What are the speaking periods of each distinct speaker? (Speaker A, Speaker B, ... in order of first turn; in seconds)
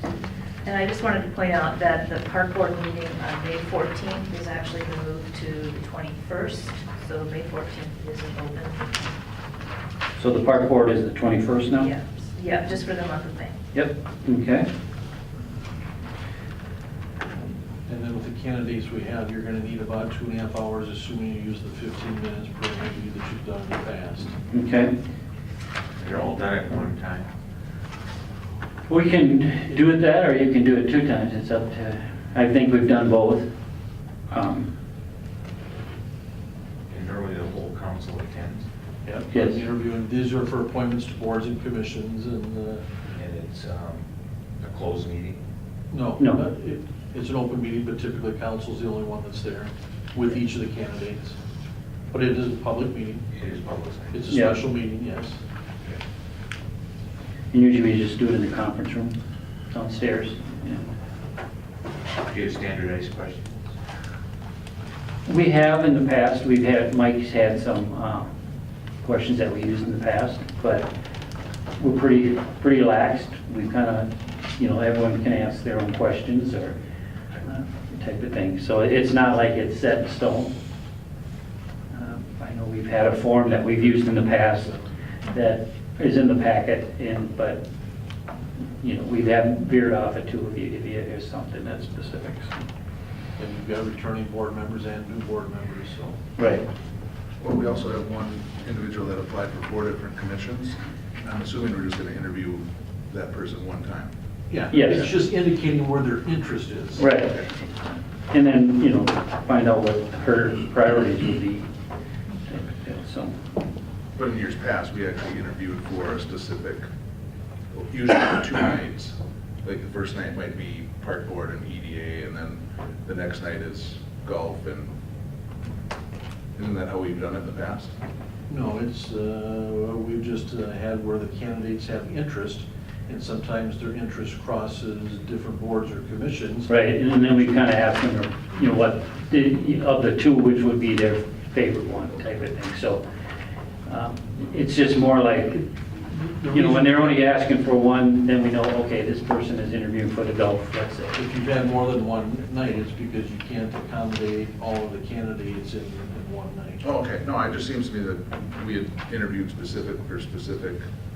Speaker A: 0.7-8.9, 11.7-13.6
Speaker B: 10.2-11.9, 13.7-14.7, 24.5-24.9, 28.9-33.5, 34.3-34.7, 39.3-39.6, 46.2-46.5, 54.3-54.6, 57.5-59.1, 59.7-60.9, 65.3-68.3, 69.0-70.9, 71.8-76.8, 77.4-80.5, 81.9-84.7, 85.3-87.7, 88.8-92.6, 96.4-96.7, 104.7-105.1, 107.0-107.7, 108.3-111.7, 112.5-113.3, 136.7-143.0, 143.9-145.7, 146.5-151.2
Speaker C: 17.9-24.4, 39.0-42.9, 45.9-51.4, 52.1-53.3, 54.1-55.4, 83.8-84.9, 93.4-96.2, 104.5-107.1, 128.5-136.7, 146.1-147.2, 151.2-156.9
Speaker D: 26.0-27.3, 36.9-38.7, 43.1-44.0, 44.6-45.4, 53.3-54.2, 62.2-63.6
Speaker E: 97.4-104.1, 114.2-116.9, 117.7-124.9, 126.6-127.9, 156.8-160.8